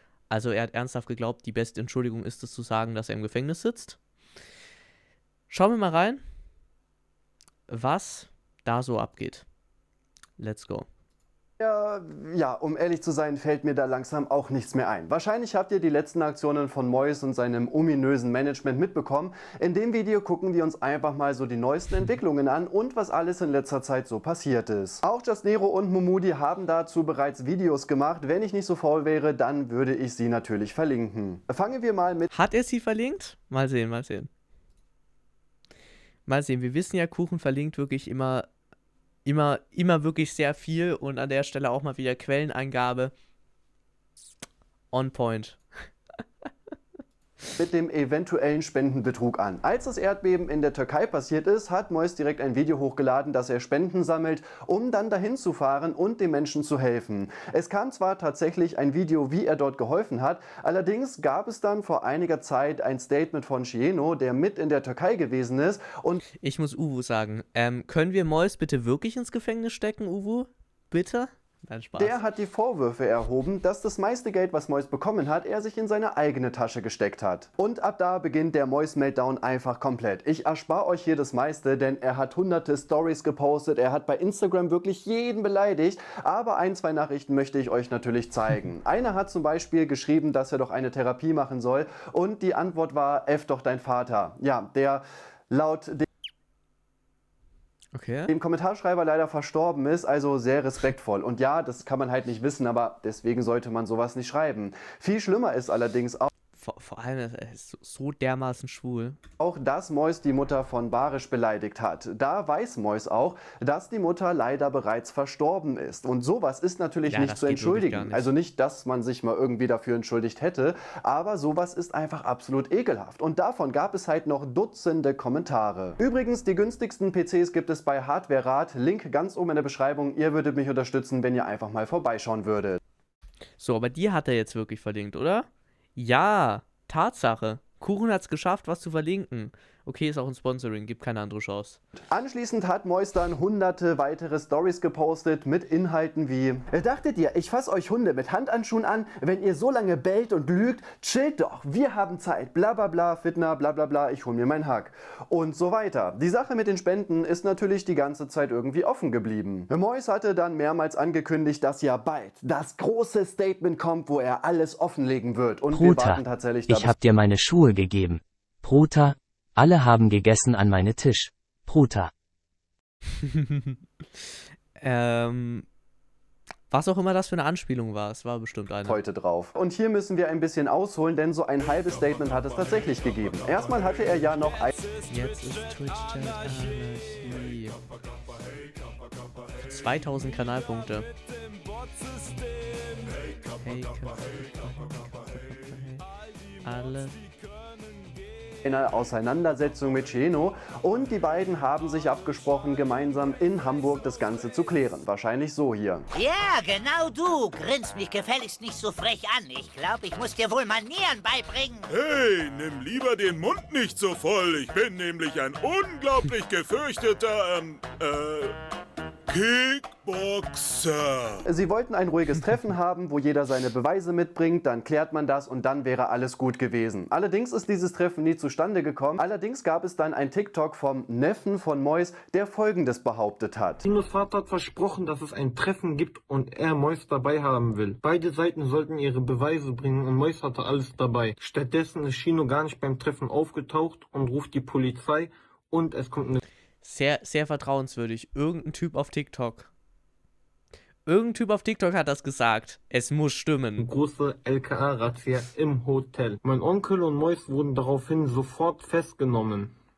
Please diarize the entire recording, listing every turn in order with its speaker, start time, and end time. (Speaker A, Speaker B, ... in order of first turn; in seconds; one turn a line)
Speaker A: 0.3-4.0
Speaker A: 5.5-6.2
Speaker A: 7.7-9.5
Speaker A: 10.4-10.9
Speaker B: 11.6-32.3
Speaker A: 32.3-34.3
Speaker A: 36.3-38.5
Speaker A: 39.2-43.1
Speaker A: 44.9-45.6
Speaker B: 47.6-66.2
Speaker A: 66.4-72.2
Speaker B: 72.0-96.1
Speaker A: 97.9-98.3
Speaker B: 98.3-106.3
Speaker A: 106.6-109.2
Speaker B: 109.4-132.8
Speaker A: 117.1-118.3
Speaker A: 133.6-141.8
Speaker B: 142.1-167.0
Speaker C: 165.7-172.1
Speaker A: 173.3-173.8
Speaker A: 174.8-175.7
Speaker A: 176.7-179.0
Speaker B: 178.8-184.7
Speaker A: 185.1-187.8
Speaker A: 189.6-191.1
Speaker A: 193.6-196.0
Speaker A: 196.6-197.2
Speaker B: 198.7-206.1
Speaker D: 206.2-211.9
Speaker E: 211.9-218.6
Speaker E: 219.3-221.4
Speaker B: 221.5-233.9
Speaker F: 233.9-246.4
Speaker A: 246.8-249.7
Speaker A: 251.1-253.9
Speaker F: 253.8-259.7